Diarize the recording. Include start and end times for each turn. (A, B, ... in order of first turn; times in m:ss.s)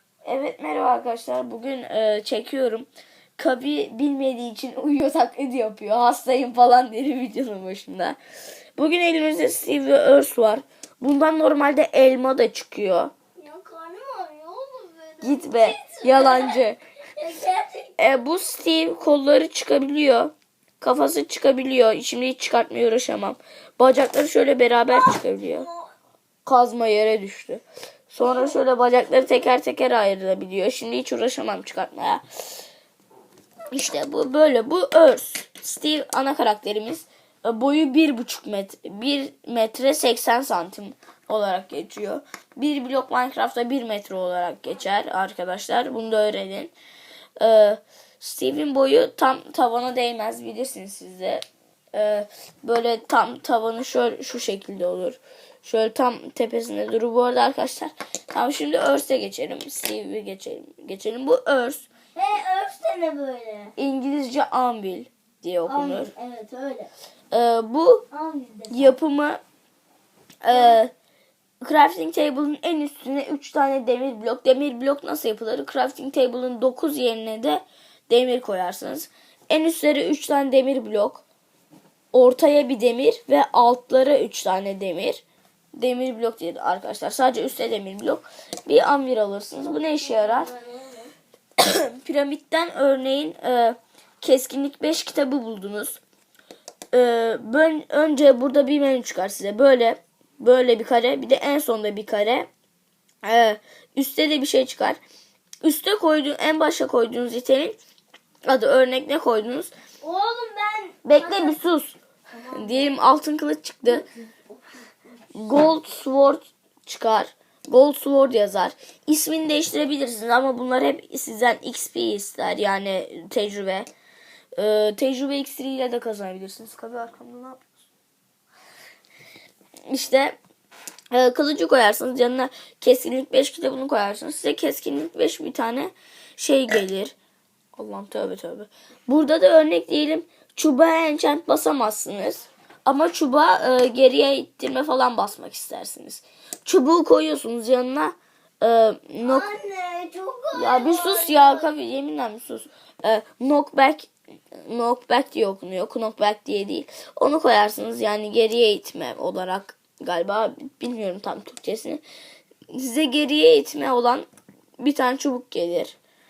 0:00.2-0:08.2 A
0:08.8-0:13.1 A
0:13.4-0:16.6 B
0:15.2-0:16.8 A
0:17.2-0:18.0 B
0:18.0-0:25.7 A
0:25.6-0:25.8 B
0:26.4-0:32.2 A
0:28.2-0:28.6 B
0:33.7-0:46.7 A
0:47.4-1:01.9 A
1:02.2-1:03.7 B
1:03.8-1:06.1 A
1:05.7-1:06.9 B
1:07.3-1:08.0 A
1:08.1-1:09.0 B
1:08.7-1:09.4 A
1:10.4-1:10.9 A
1:11.6-1:21.2 A
1:22.1-1:25.2 A
1:25.8-1:30.5 A
1:30.0-1:31.1 B
1:31.6-1:36.0 A
1:36.9-1:42.5 A
1:43.2-1:45.0 A
1:45.6-1:47.8 A
1:48.4-1:49.7 A
1:50.0-1:51.7 B
1:51.0-1:52.0 A
1:52.3-1:52.9 B
1:52.5-1:54.0 A
1:54.0-1:54.4 B
1:55.4-2:03.9 A
2:04.6-2:07.7 A
2:09.9-2:10.4 A
2:11.1-2:17.2 A
2:17.8-2:29.5 A
2:29.2-2:31.7 B
2:30.5-2:42.0 A
2:42.7-2:44.3 A
2:44.8-2:46.0 A